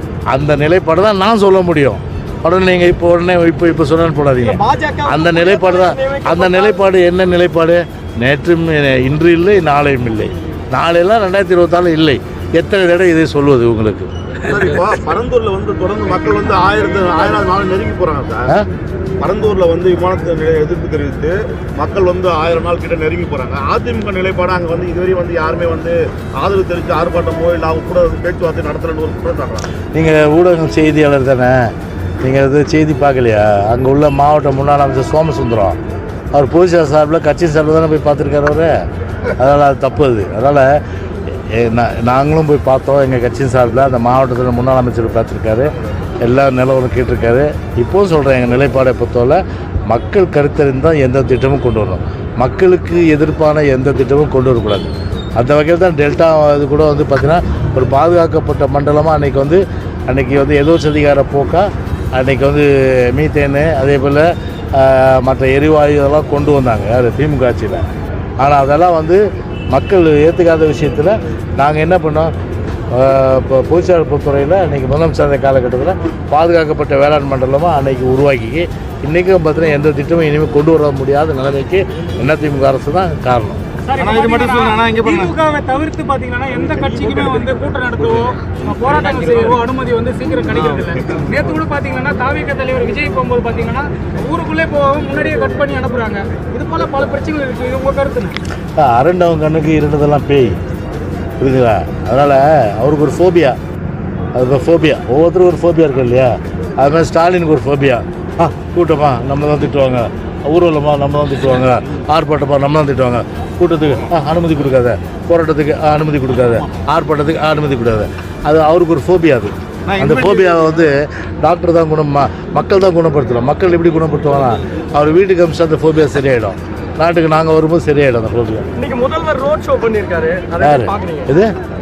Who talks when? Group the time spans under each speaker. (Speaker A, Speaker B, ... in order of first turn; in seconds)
Speaker A: 0.3-14.6, 29.9-35.8, 36.3-38.7, 39.4-40.8, 41.5-45.7, 46.2-67.8, 68.4-72.3, 72.9-83.6, 98.8-100.6, 101.4-103.6, 104.3-128.7, 130.6-131.5
Speaker B: 4.4-6.8, 128.8-131.3
Speaker C: 14.5-18.5, 19.2-29.7, 84.0-85.3, 86.6-87.6, 88.9-89.5, 90.7-91.3, 119.9-120.7
Speaker D: 83.8-98.3